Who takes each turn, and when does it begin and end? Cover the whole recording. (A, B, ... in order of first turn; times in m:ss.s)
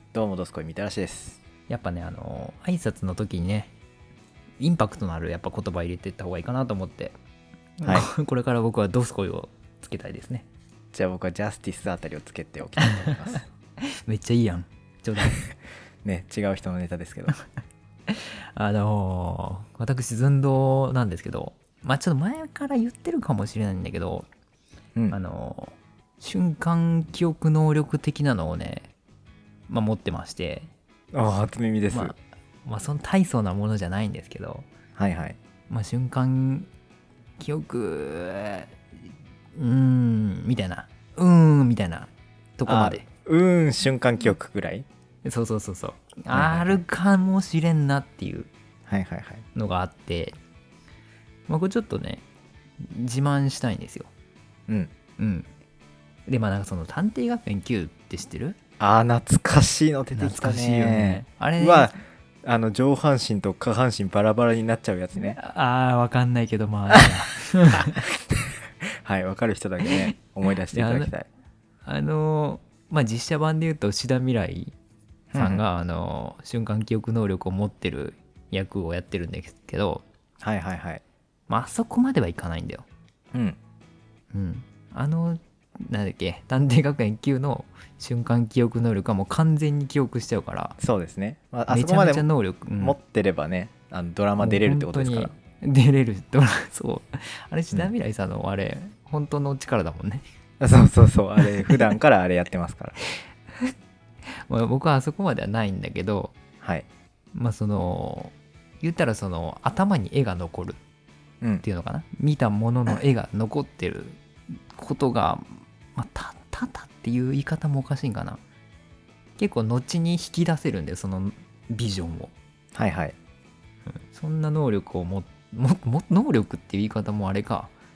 0:00.1-0:01.4 A
0:01.7-0:03.7 B
0:04.6-0:07.1 B
0:07.8-0:10.5 B
0:10.9-0:13.4 A
0:13.9-0:15.4 B
0:16.0-0:17.4 A
0:18.1-0:24.3 B
0:25.1-0:28.9 B
0:29.7-0:30.7 B
0:31.1-0:32.1 A
0:31.9-0:34.7 B
0:35.0-0:35.4 A
0:35.7-0:36.7 B
0:37.4-0:38.7 B
0:39.5-0:43.1 B
0:42.7-0:44.9 A
0:45.2-0:48.5 B
0:46.3-0:46.8 A
0:48.9-0:49.4 A
0:49.6-0:50.4 B
0:51.5-0:52.2 B
0:52.8-0:54.1 B
0:55.2-0:55.5 B
0:56.3-0:58.6 B
0:58.8-1:05.4 A
1:00.2-1:02.0 B
1:05.2-1:08.0 B
1:08.3-1:11.3 A
1:10.7-1:11.1 B
1:11.8-1:14.7 B
1:15.3-1:15.6 A
1:15.4-1:20.0 B
1:20.4-1:21.0 A
1:21.5-1:22.9 B
1:24.3-1:30.8 B
1:30.8-1:32.3 A
1:31.7-1:33.0 B
1:32.8-1:35.3 A
1:34.4-1:40.2 B
1:40.6-1:43.0 A
1:44.4-1:46.3 B
1:46.6-1:46.9 A
1:47.3-1:50.8 B
1:51.6-1:58.4 B
1:59.4-2:02.3 B
2:02.8-2:03.2 A
2:04.1-2:07.7 B